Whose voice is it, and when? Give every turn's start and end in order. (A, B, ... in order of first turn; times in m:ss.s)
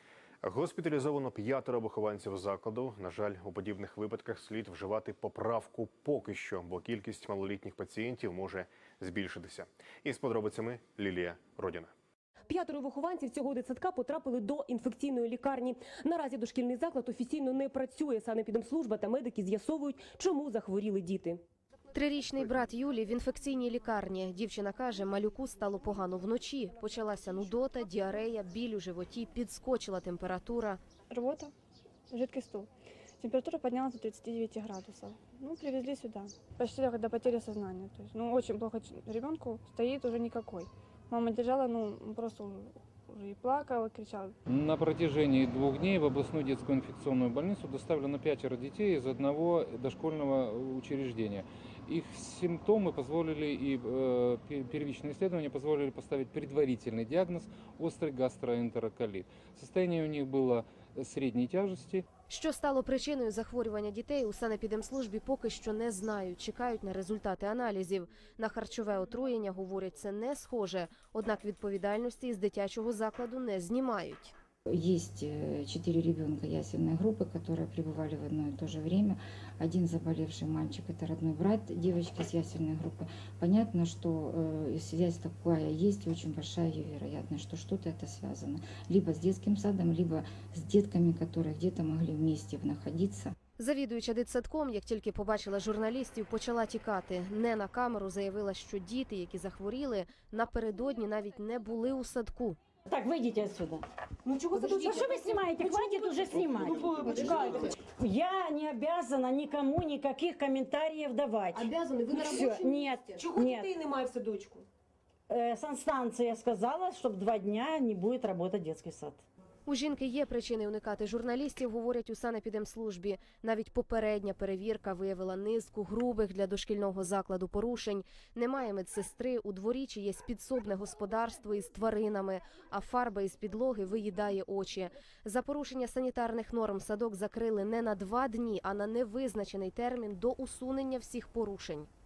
0:00.4-0:11.9 A
0:12.5-0:21.4 B
0:21.9-0:30.8 C
0:31.1-0:31.5 D
0:32.1-0:32.7 D
0:33.2-0:44.4 D
0:44.5-1:02.1 E
1:02.3-1:14.3 C
1:14.7-1:33.3 F
1:33.6-1:42.6 C
1:42.9-1:43.8 G
1:44.2-1:47.7 B
1:44.5-1:53.7 G
1:51.5-1:54.7 B
1:55.3-1:59.2 G
1:59.7-2:21.9 C